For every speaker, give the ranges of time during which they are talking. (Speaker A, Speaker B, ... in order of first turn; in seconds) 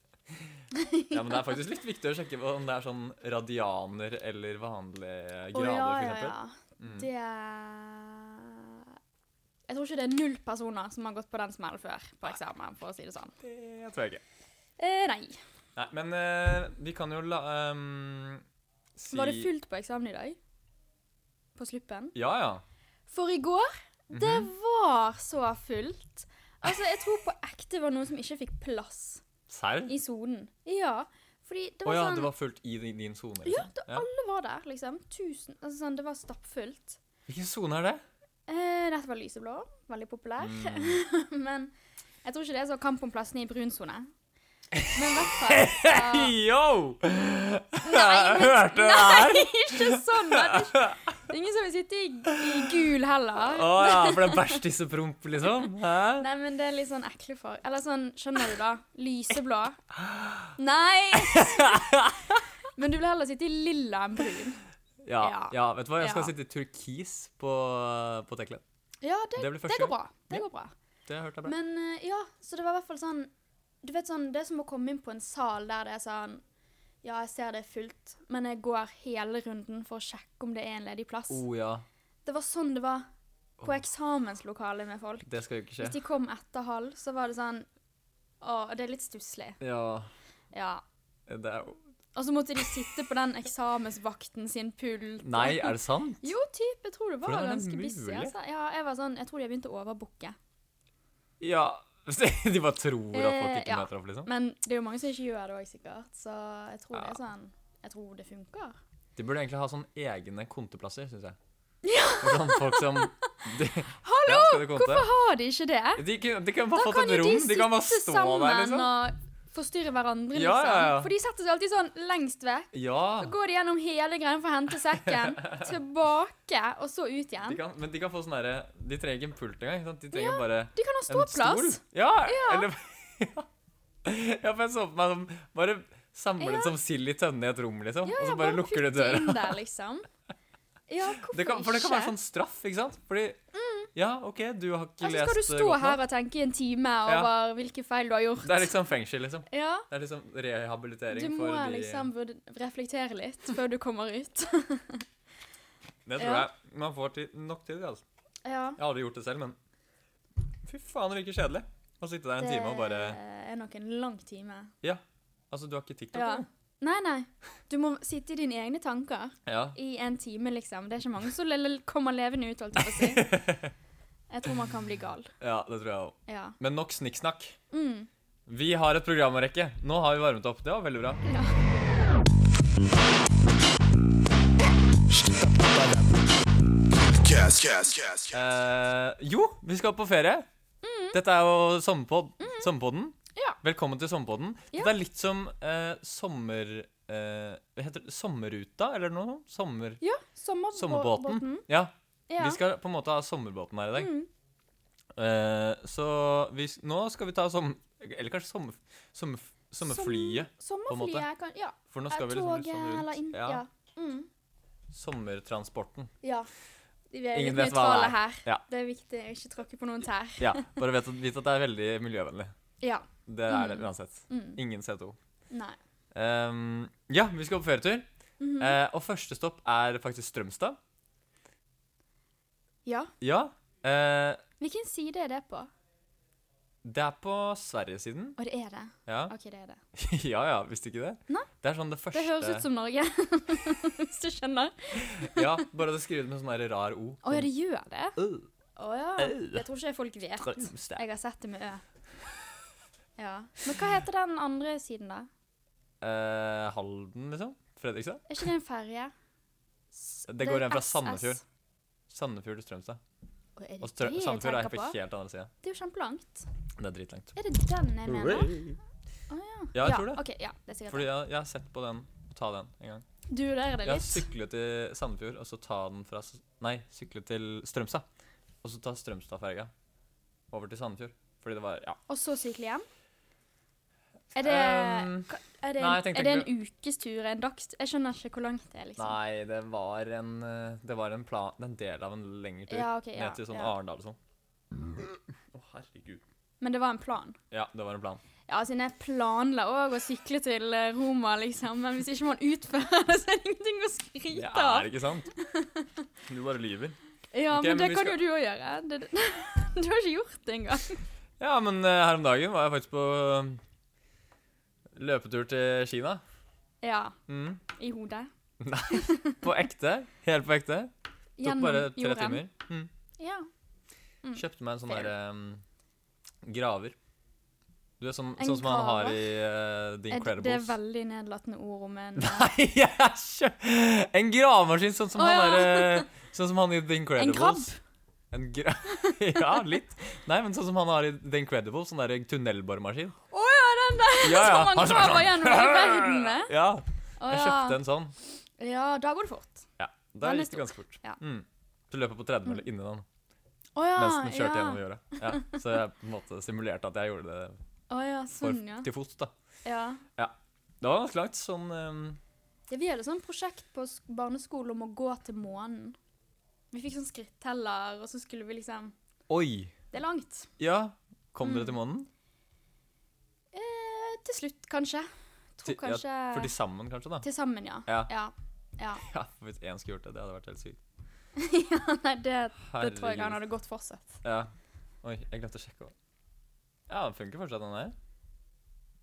Speaker A: 0.7-1.5, 5.5-8.8, 9.7-13.4, 14.8-15.4, 19.1-20.4, 21.6-22.1, 23.1-29.2, 29.9-32.3, 33.5-37.0, 38.5-41.7, 42.2-44.1, 44.9-46.4, 47.8-54.6, 56.2-59.8, 60.6-61.9, 62.8-64.6, 65.2-66.3, 69.0-70.7, 71.4-73.3, 73.8-76.4, 77.0-81.4, 82.3-83.1, 83.6-85.3, 85.8-87.7, 88.4-89.6, 90.5-90.8, 92.2-100.4, 103.1-108.8, 111.8-113.1, 114.0-116.0, 116.7-127.6, 130.1-132.7, 136.4-136.8, 138.0-140.1, 140.9-142.2, 143.5-143.9, 145.0-148.7, 149.5-149.9, 151.1-155.0, 156.2-156.5, 158.4-158.8, 162.4-164.7, 166.1-173.3, 174.3-175.3, 176.3-176.6, 177.7-178.1, 181.2-181.5, 190.8-191.2, 192.4-192.7, 200.0-201.7, 202.3-202.6, 204.0-204.3, 209.8-214.3, 216.2-216.5, 217.1-220.7, 222.8-224.6, 225.5-225.8, 228.4-228.8, 232.8-233.1, 234.6-235.7, 238.4-239.8, 242.1-245.6, 247.2-248.2, 248.8-251.8, 253.2-255.3, 258.3-259.1, 259.9-261.4, 263.6-265.0, 265.6-266.5, 267.4-268.7, 269.3-271.1, 273.3-274.3, 282.1-282.9, 284.3-289.2, 292.7-293.7, 296.6-297.4, 298.5-305.9, 307.3-311.0, 316.8-317.2, 317.7-318.3, 318.9-319.4, 321.4-322.4, 323.2-323.5, 324.2-325.1, 328.4-329.2, 330.1-332.5, 335.2-336.1, 337.2-337.8, 343.3-346.5, 347.2-347.8, 348.6-349.7, 350.2-351.2, 353.8-355.6, 357.9-358.9, 359.6-360.1, 362.7-366.0, 366.7-368.9, 369.9-370.5, 371.4-371.8, 373.5-376.5, 377.2-379.0, 381.4-384.2
Speaker B: 1.1-7.1, 13.4-14.2, 15.8-18.4, 19.0-19.5, 22.1-22.6, 24.1-24.5, 29.5-29.9, 31.9-34.1, 37.3-38.0, 40.4-41.0, 44.7-51.1, 52.3-56.3, 60.0-60.5, 61.1-62.3, 65.0-68.6, 69.4-70.5, 71.1-71.5, 81.3-81.8, 85.3-86.0, 89.6-90.1, 91.3-91.8, 95.2-96.3, 97.2-98.3, 101.4-104.3, 109.2-111.4, 112.2-115.1, 116.0-118.9, 120.3-121.1, 122.7-123.3, 125.0-125.7, 127.5-133.5, 134.0-139.6, 141.2-143.4, 143.9-146.0, 148.4-152.1, 156.1-158.0, 158.8-159.6, 160.7-163.2, 164.8-166.5, 169.5-169.8, 172.8-173.7, 175.4-177.6, 178.5-181.2, 188.3-190.5, 191.1-200.0, 200.8-204.1, 205.2-211.3, 211.9-213.6, 214.9-216.1, 217.3-218.6, 220.4-222.5, 223.3-225.2, 226.1-228.1, 228.6-230.8, 233.2-234.4, 236.8-238.4, 239.1-239.3, 239.9-242.6, 245.0-247.5, 248.2-248.5, 249.2-249.7, 250.4-251.0, 256.0-258.4, 260.3-261.4, 262.1-263.0, 263.8-265.5, 266.8-267.4, 268.1-268.8, 269.8-270.2, 270.9-273.1, 273.8-278.1, 278.6-279.7, 280.5-282.0, 284.4-286.5, 289.0-294.2, 294.7-296.2, 297.5-298.2, 304.3-305.3, 306.3-307.0, 307.5-308.2, 311.4-313.6, 314.9-316.2, 317.3-317.6, 318.6-320.9, 321.4-322.9, 324.4-325.6, 326.4-327.0, 328.0-330.8, 332.2-337.7, 338.3-343.2, 344.2-348.1, 349.8-353.1, 353.9-357.6, 358.4-359.3, 360.2-362.2, 369.3-369.8, 370.6-372.1, 375.6-377.3, 379.0-380.8, 382.6-383.4, 384.2-384.5, 385.0-385.9, 386.9-387.9
Speaker C: 185.2-186.1, 187.2-188.4